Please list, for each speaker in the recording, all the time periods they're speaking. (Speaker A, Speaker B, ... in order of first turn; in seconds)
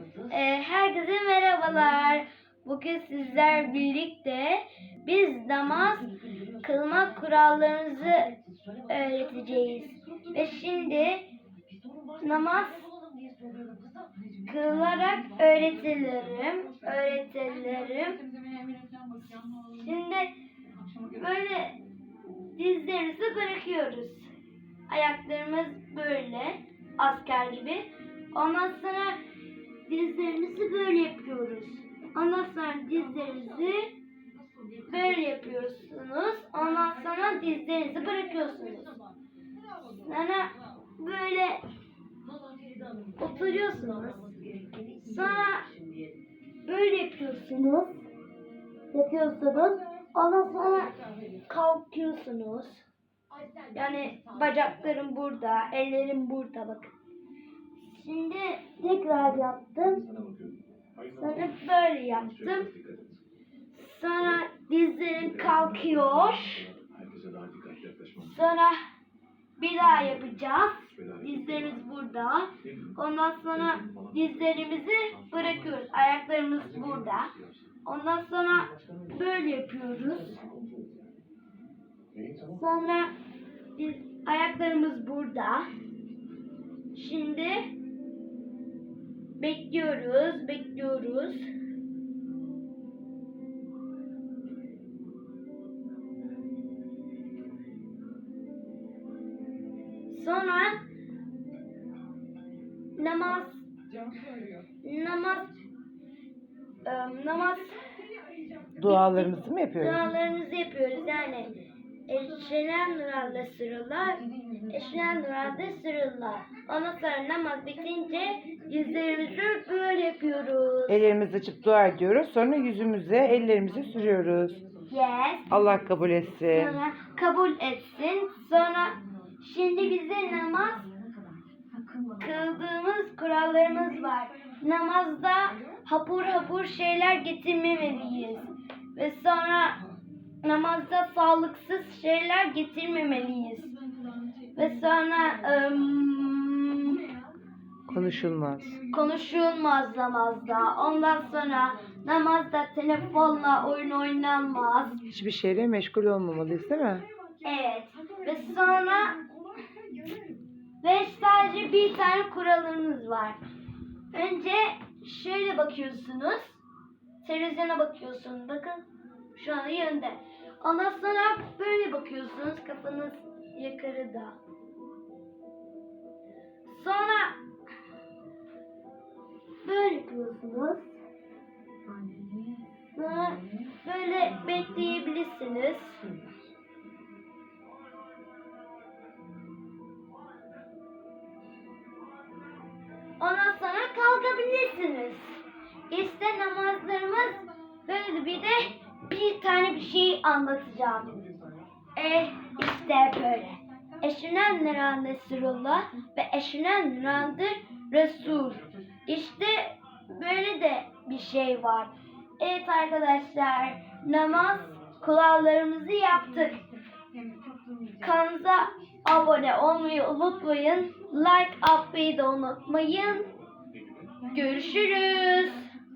Speaker A: 0.3-8.3, 8.9-11.3, 12.2-12.9, 14.4-18.2, 19.2-20.3, 21.1-21.8, 22.6-24.3, 24.9-29.2, 29.9-33.9, 34.8-39.0, 39.8-41.6, 43.2-44.5, 45.0-45.7, 46.6-48.0, 48.9-52.8, 53.7-56.9, 57.8-60.1, 61.1-62.7, 63.7-66.7, 68.2-68.8, 69.6-77.3, 77.8-80.5, 82.5-83.1, 83.8-85.6, 86.9-87.7, 89.4-91.5, 100.1-100.8, 103.0-103.7, 104.8-105.5, 106.8-107.7, 108.8-111.5, 112.1-121.1, 124.9-125.5, 126.5-130.9, 132.2-139.8, 140.4-143.7, 144.5-147.1, 148.9-155.1, 157.4-159.2, 160.8-163.4, 164.1-166.6, 167.2-174.4, 176.7-177.4, 179.6-181.0, 182.9-186.0, 193.2-201.2, 201.9-216.6, 218.0-223.3, 224.3-225.7
Speaker B: 108.8-110.1, 120.9-124.6, 125.5-126.8, 147.9-148.8, 155.1-157.1